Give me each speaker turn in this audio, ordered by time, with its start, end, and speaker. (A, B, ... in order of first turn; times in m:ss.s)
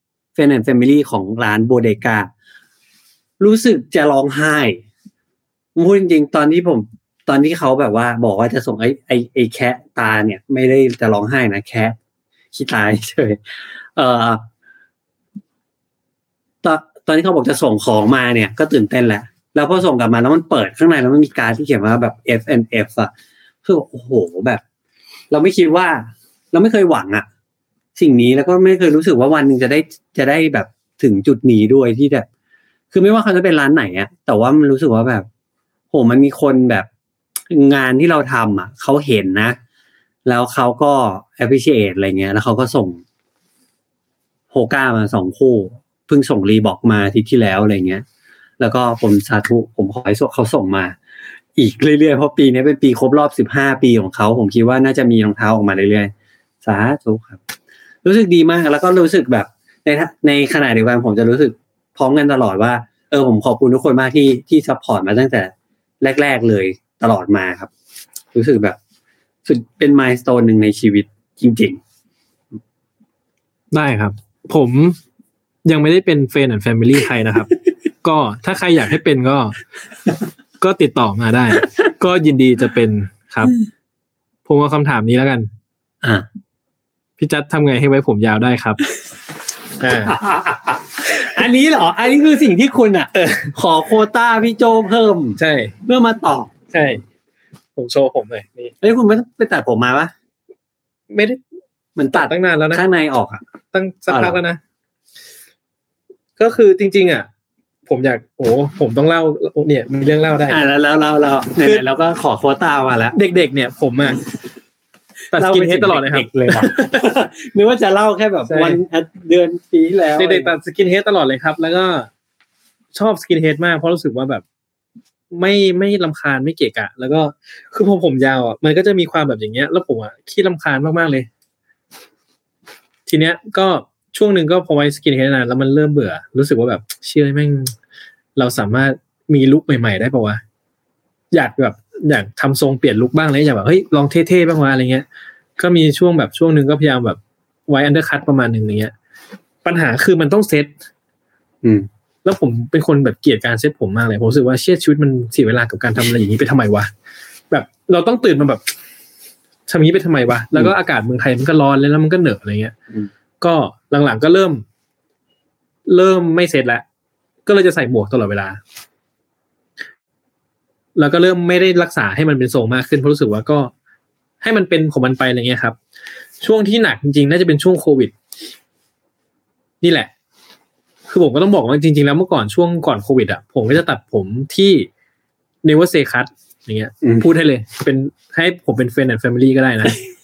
0:00.4-0:02.3 A
0:03.4-0:04.8 A
0:05.8-0:12.0 A
0:12.5-0:14.4 A
0:16.6-0:23.1 A
0:23.6-0:24.6 A
0:25.3-0:27.3 A
0:28.0-0:32.3 A
0:32.9-0:35.3 A
0:35.9-0:36.9 A
0:37.5-0:39.6 A
0:40.2-0:43.0 A
0:44.5-0:48.0 A
0:48.6-0:51.0 A
0:51.6-0:57.4 A
0:58.0-1:07.7 A
1:08.3-1:08.8 A
1:09.4-1:11.8 A
1:13.7-1:15.0 B
1:15.6-1:17.5 B
1:18.0-1:19.6 B
1:20.6-1:23.6 B
1:24.4-1:25.5 B
1:27.2-1:28.8 B
1:29.8-1:30.2 B
1:30.1-1:36.5 A
1:33.2-1:33.5 B
1:35.4-1:35.7 B
1:36.7-1:37.0 B
1:37.8-1:38.7 B
1:38.8-1:40.1 A
1:41.1-1:41.4 B
1:42.0-1:43.4 A
1:42.1-1:42.8 B
1:43.7-1:44.6 B
1:44.1-1:44.4 A
1:46.4-1:47.3 B
1:47.9-1:50.6 B
1:50.5-1:53.2 A
1:53.1-1:54.2 B
1:55.3-1:57.0 B
1:55.3-2:00.5 A
1:58.5-1:58.8 B
2:00.2-2:02.1 B
2:02.9-2:04.4 B
2:05.3-2:11.3 B
2:13.1-2:17.7 B
2:18.4-2:20.4 B
2:21.3-2:25.0 B
2:25.6-2:28.9 B
2:29.6-2:30.7 B
2:31.6-2:31.9 A
2:32.2-2:36.9 B
2:37.5-2:38.7 B
2:39.7-2:42.7 B
2:43.4-2:44.6 B
2:45.9-2:46.8 B
2:47.4-2:48.6 B
2:51.0-2:53.7 B
2:54.4-2:55.8 B
2:56.4-2:58.1 B
2:59.8-3:00.1 B
3:01.1-3:04.9 B
3:05.6-3:10.0 B